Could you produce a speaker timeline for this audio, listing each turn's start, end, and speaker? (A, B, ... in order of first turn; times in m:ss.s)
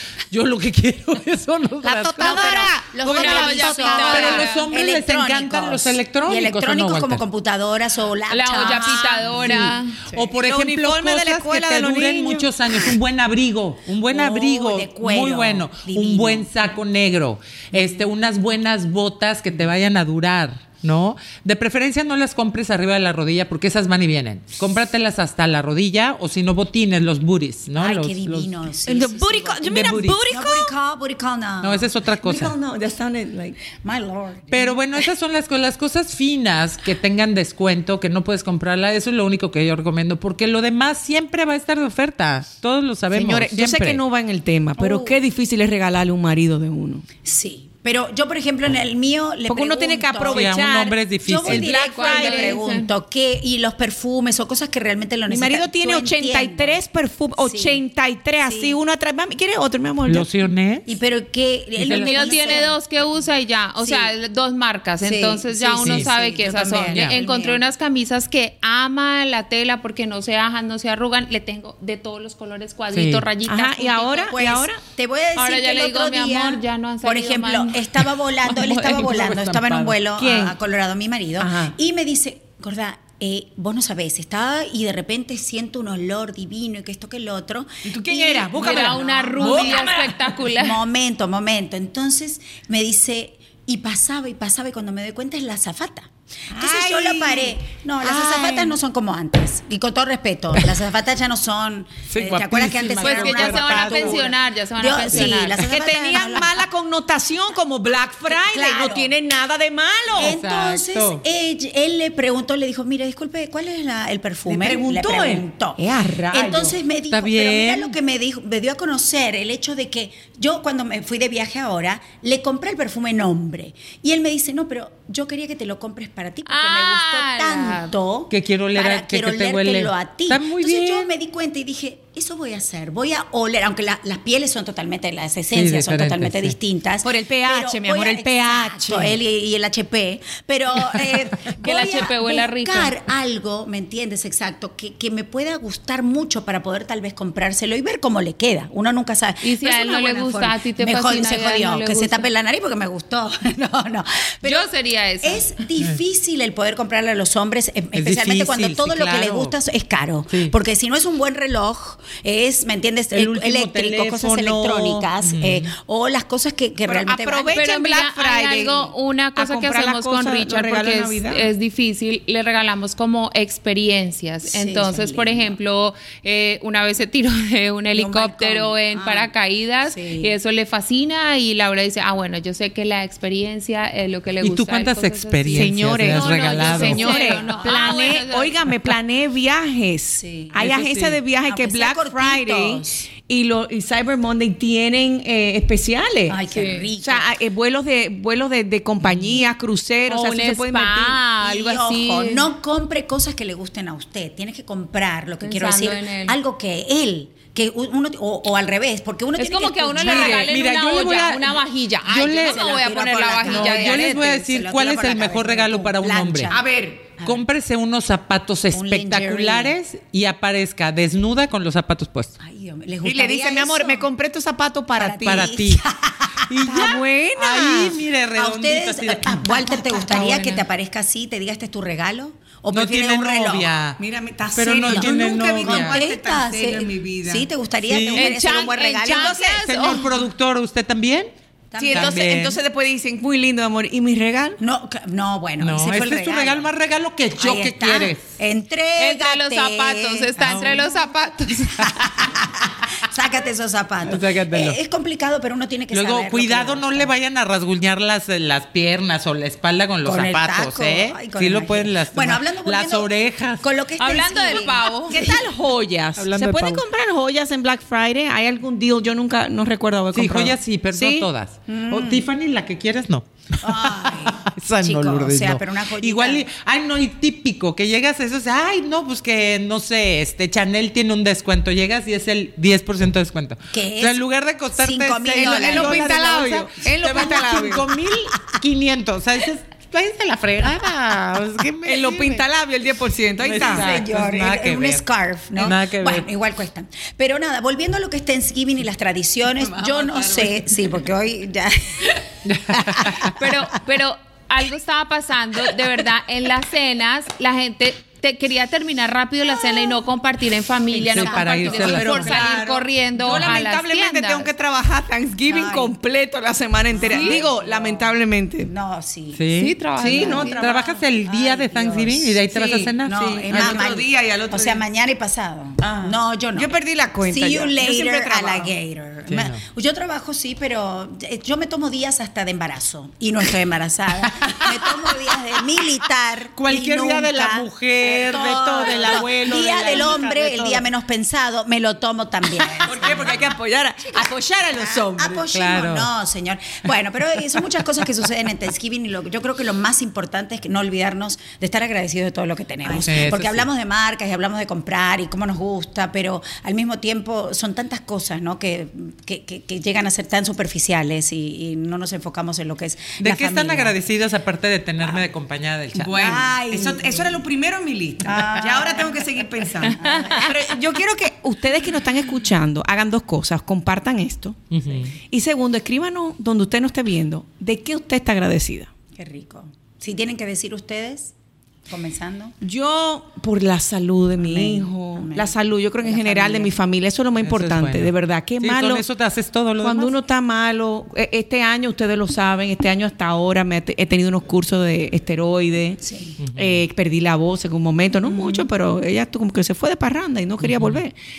0:00.3-0:03.5 A
0:01.8-0:04.4 B
0:02.1-0:10.2 C
0:03.0-0:04.7 D
0:04.1-0:07.2 A
0:08.3-0:10.0 D
0:08.6-0:09.8 B
0:10.1-0:28.5 A
0:10.4-0:12.7 B
0:14.1-0:16.7 C
0:17.7-0:18.1 C
0:27.8-0:29.7 C
0:28.9-0:30.7 B
0:29.7-0:30.2 A
0:30.3-0:32.3 C
0:31.6-0:32.6 A
0:32.3-0:33.6 B
0:33.7-0:34.8 C
0:34.5-0:44.0 A
0:43.1-0:47.0 B
0:44.8-0:45.2 C
0:47.2-0:50.5 C
0:49.5-0:52.6 B
0:50.3-0:51.7 A
0:51.2-0:56.8 C
0:51.7-0:52.9 D
0:55.3-1:00.3 B
0:57.4-0:57.8 C
0:58.4-0:58.8 C
1:00.0-1:00.9 A
1:00.9-1:02.8 C
1:01.8-1:02.7 A
1:01.9-1:14.3 D
1:03.8-1:04.1 C
1:05.0-1:07.6 C
1:05.8-1:06.1 A
1:06.9-1:07.2 A
1:12.9-1:13.2 A
1:13.4-1:14.8 B
1:14.0-1:30.0 C
1:15.4-1:17.8 D
1:18.6-1:19.1 B
1:18.9-1:20.0 A
1:20.1-1:20.6 B
1:21.4-1:21.7 B
1:27.9-1:30.2 B
1:28.5-1:30.8 D
1:30.5-1:46.6 C
1:36.5-1:38.8 B
1:42.1-1:44.1 A
1:43.0-1:45.6 D
1:45.6-1:50.4 B
1:48.3-1:49.1 C
1:50.2-1:51.2 A
1:50.2-2:47.6 C
1:54.5-1:56.8 B
1:57.1-1:58.0 A
2:06.4-2:07.9 D
2:08.3-2:11.1 A
2:15.5-2:16.5 A
2:17.0-2:19.1 B
2:21.6-2:22.9 D
2:29.4-2:32.3 D
2:34.4-2:35.4 D
2:37.9-2:39.6 A
2:40.3-2:40.5 A
2:43.1-2:45.7 A
2:46.9-2:51.5 B
2:47.5-3:08.6 D
2:54.4-2:55.6 C
2:57.9-2:59.3 C
2:59.8-3:00.4 C
3:04.4-3:07.2 A
3:05.5-3:16.4 B
3:07.1-3:07.6 C
3:10.2-3:10.7 C
3:10.6-3:11.2 A
3:11.4-3:13.1 C
3:16.3-3:17.3 C
3:16.5-3:16.9 D
3:17.0-3:21.2 B
3:20.1-3:22.4 D
3:21.4-3:30.5 C
3:25.4-3:26.4 D
3:29.4-3:34.1 D
3:30.0-3:32.6 A
3:32.1-3:36.6 C
3:33.4-3:36.5 A
3:36.5-3:37.1 B
3:37.2-3:37.4 C
3:37.2-3:42.3 A
3:38.7-3:39.7 C
3:42.4-3:44.1 C
3:43.0-3:45.5 B
3:45.0-3:46.9 C
3:45.2-3:45.8 A
3:46.5-3:49.5 A
3:46.6-3:48.0 B
3:48.3-3:53.7 C
3:49.7-3:50.5 B
3:50.0-3:50.2 D
3:52.7-3:54.0 A
3:54.0-3:57.5 B
3:54.5-3:56.0 A
3:54.8-3:59.4 C
3:57.8-3:58.2 A
3:58.1-4:00.1 B
3:58.2-4:00.1 D
3:59.6-4:01.3 A
4:01.7-4:02.3 C
4:01.8-4:04.6 B
4:01.9-4:02.6 A
4:04.6-4:06.7 C
4:05.6-4:08.3 A
4:07.4-4:10.9 C
4:09.0-4:11.9 D
4:10.4-4:10.9 A
4:11.8-4:17.1 C
4:14.0-4:14.8 A
4:15.9-4:23.7 A
4:20.0-4:25.4 C
4:24.0-4:25.2 D
4:24.6-4:31.3 B
4:26.2-4:26.8 A
4:30.1-4:52.4 A
4:31.7-4:32.3 C
4:33.6-4:36.4 C
4:43.7-4:44.2 C
4:44.7-4:46.6 C
4:45.4-4:47.8 B
4:47.3-4:47.8 C
4:51.8-4:53.9 B
4:53.4-4:55.0 A
4:53.6-5:03.5 C
4:55.6-4:56.3 A
4:59.6-5:00.6 A
5:02.4-5:03.3 A
5:03.3-5:14.5 D
5:10.9-5:18.7 B
5:11.1-5:12.2 A
5:11.5-5:12.4 C
5:15.5-5:16.0 C
5:16.9-5:19.4 C
5:17.0-5:17.4 D
5:19.3-5:19.8 A
5:19.6-5:20.6 D
5:20.0-5:20.7 B
5:20.0-5:26.7 C
5:20.6-5:23.7 A
5:23.1-5:24.8 B
5:25.8-5:28.7 B
5:27.2-5:43.4 C
5:29.3-5:29.6 A
5:34.6-5:34.9 A
5:36.6-5:40.8 A
5:38.8-5:39.2 B
5:39.8-5:40.2 B
5:42.6-5:45.4 B
5:44.1-6:04.0 C
5:45.5-5:46.1 A
5:52.8-5:53.6 A
6:03.2-6:06.4 A
6:05.9-6:14.7 B
6:06.2-6:07.4 C
6:08.2-6:10.6 C
6:10.0-6:10.4 D
6:14.7-6:15.1 A
6:15.2-6:18.9 B
6:19.1-6:21.3 C
6:21.9-6:22.5 C
6:22.6-6:29.0 B
6:24.4-6:26.8 C
6:27.4-6:30.2 A
6:29.8-6:36.0 B
6:36.0-6:36.4 C
6:36.4-6:36.8 A
6:36.5-6:41.2 B
6:38.2-6:38.7 C
6:40.6-6:41.0 A